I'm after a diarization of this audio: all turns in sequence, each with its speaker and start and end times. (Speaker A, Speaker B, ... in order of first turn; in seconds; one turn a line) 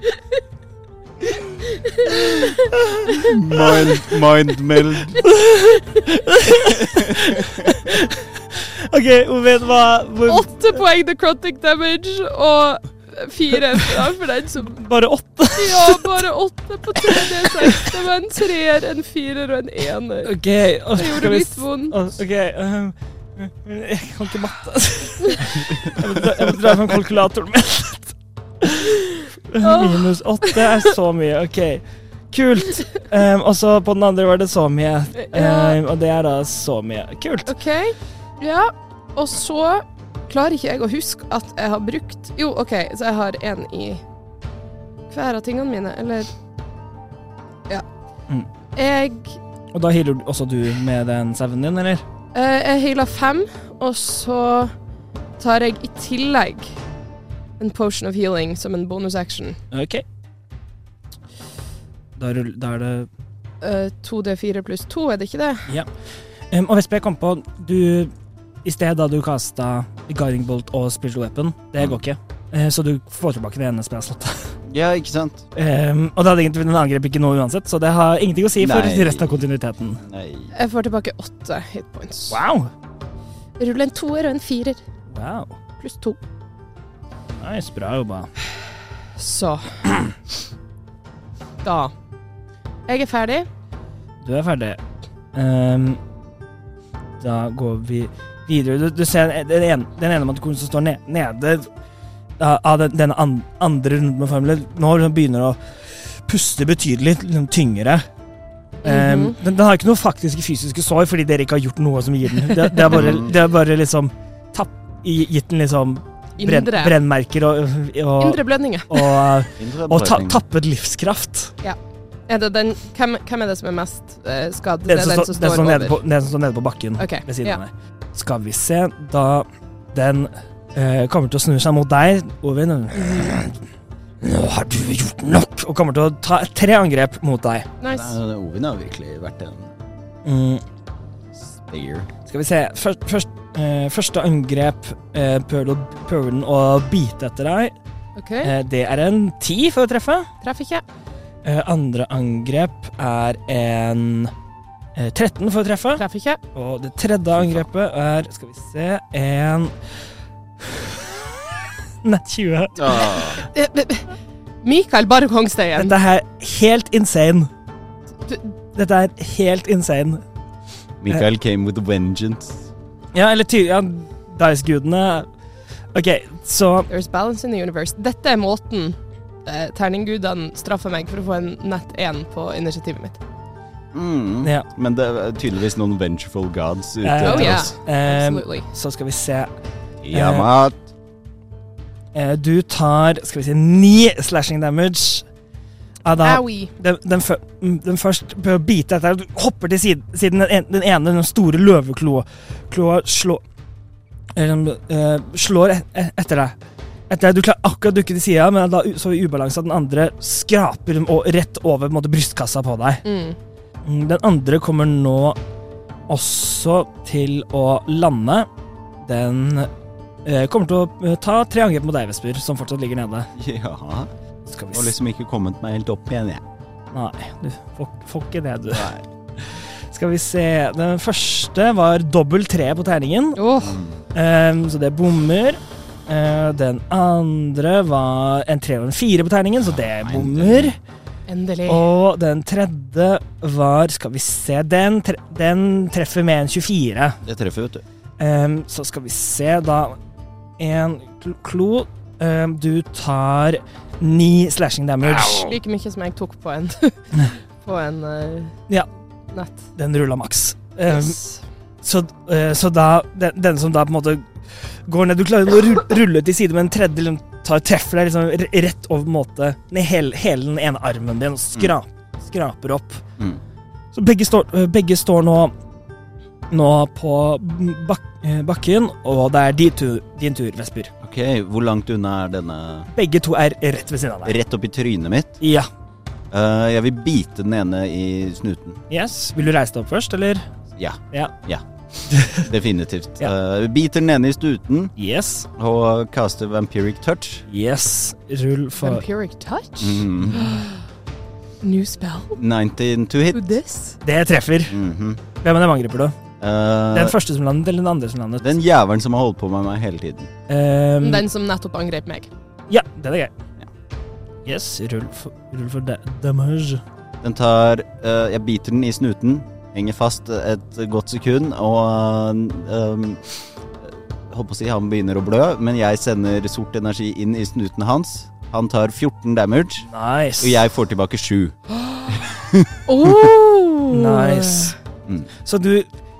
Speaker A: 1.7-2.6
Speaker B: 2.7-3.3
Speaker C: 3.2-5.3
Speaker B: 5.2-10.6
Speaker C: 7.0-7.3
Speaker A: 10.3-14.8
Speaker B: 14.7-16.1
Speaker A: 15.6-20.4
Speaker B: 17.1-17.9
Speaker B: 20.2-37.5
Speaker A: 20.9-22.0
Speaker A: 29.6-30.8
Speaker A: 35.2-35.8
Speaker A: 37.5-44.0
Speaker A: 45.1-46.3
Speaker A: 48.8-49.4
Speaker B: 49.7-52.0
Speaker A: 52.3-54.7
Speaker A: 55.4-56.8
Speaker A: 57.6-59.6
Speaker B: 59.7-60.0
Speaker B: 62.2-63.1
Speaker A: 63.6-65.7
Speaker B: 66.5-68.1
Speaker B: 68.6-74.5
Speaker C: 74.7-75.5
Speaker B: 75.5-80.0
Speaker C: 78.6-79.4
Speaker C: 80.0-80.5
Speaker A: 80.5-82.4
Speaker B: 82.3-82.7
Speaker A: 83.6-84.8
Speaker B: 85.1-85.6
Speaker A: 85.8-86.2
Speaker B: 87.4-88.3
Speaker A: 89.2-89.8
Speaker A: 91.6-91.9
Speaker A: 92.9-93.5
Speaker B: 94.2-94.8
Speaker B: 95.3-96.0
Speaker B: 97.2-101.7
Speaker B: 102.4-108.0
Speaker A: 108.8-109.4
Speaker B: 108.8-121.5
Speaker C: 112.9-113.3
Speaker A: 116.4-117.0
Speaker A: 118.2-119.2
Speaker C: 119.6-120.4
Speaker A: 122.3-126.0
Speaker B: 124.9-133.6
Speaker A: 127.0-127.6
Speaker A: 133.0-133.3
Speaker B: 134.2-137.7
Speaker A: 137.8-138.1
Speaker C: 137.9-139.7
Speaker B: 140.2-140.6
Speaker C: 141.5-142.1
Speaker B: 142.3-147.7
Speaker A: 148.2-148.5
Speaker B: 148.4-150.3
Speaker A: 150.4-150.8
Speaker B: 151.4-154.3
Speaker B: 155.0-156.0
Speaker A: 156.0-156.4
Speaker B: 156.5-159.7
Speaker B: 160.6-161.3
Speaker B: 162.0-163.1
Speaker C: 162.8-163.4
Speaker A: 163.4-165.9
Speaker B: 165.8-167.5
Speaker B: 168.7-170.2
Speaker C: 171.0-172.7
Speaker B: 173.1-175.3
Speaker B: 175.9-176.9
Speaker A: 176.9-183.2
Speaker C: 183.9-187.7
Speaker B: 187.0-189.5
Speaker A: 187.2-188.7
Speaker C: 190.0-190.8
Speaker B: 190.1-190.5
Speaker B: 192.1-195.2
Speaker B: 196.1-203.4
Speaker A: 196.2-196.7
Speaker B: 204.3-206.6
Speaker B: 207.1-213.1
Speaker A: 213.1-213.4
Speaker B: 213.8-215.4
Speaker B: 216.1-218.5
Speaker B: 219.0-219.7
Speaker B: 220.2-223.3
Speaker C: 223.4-224.1
Speaker B: 224.5-224.9
Speaker C: 224.7-226.4
Speaker B: 226.9-228.9
Speaker C: 228.7-229.0
Speaker B: 229.6-233.4
Speaker A: 233.4-233.8
Speaker C: 233.6-234.0
Speaker B: 234.1-240.8
Speaker C: 239.8-240.8
Speaker A: 241.3-241.9
Speaker B: 241.7-247.2
Speaker C: 247.2-247.8
Speaker B: 248.2-250.0
Speaker B: 250.6-255.5
Speaker A: 255.2-258.6
Speaker A: 259.3-259.7
Speaker B: 259.8-261.2
Speaker A: 260.9-261.4
Speaker B: 261.8-273.0
Speaker B: 273.9-275.5
Speaker B: 276.5-280.9
Speaker C: 281.0-282.9
Speaker B: 282.9-284.4
Speaker C: 284.2-285.4
Speaker B: 285.4-285.7
Speaker C: 286.3-288.8
Speaker B: 288.9-290.5
Speaker C: 290.8-294.9
Speaker B: 292.1-292.4
Speaker B: 295.0-295.5
Speaker C: 295.6-297.5
Speaker B: 297.5-299.1
Speaker A: 298.8-300.8
Speaker C: 299.8-300.4
Speaker A: 301.6-302.4
Speaker C: 302.4-303.4
Speaker A: 303.3-304.0
Speaker B: 304.0-304.8
Speaker C: 304.7-305.2
Speaker B: 305.4-306.2
Speaker C: 306.4-307.1
Speaker B: 306.9-308.5
Speaker C: 308.4-310.3
Speaker B: 310.5-311.2
Speaker A: 311.0-312.3
Speaker B: 312.7-313.3
Speaker B: 314.4-316.8
Speaker C: 317.2-329.9
Speaker B: 329.9-330.6
Speaker C: 330.4-331.6
Speaker C: 332.2-332.7
Speaker A: 332.9-334.7
Speaker B: 333.9-334.8
Speaker B: 335.4-335.9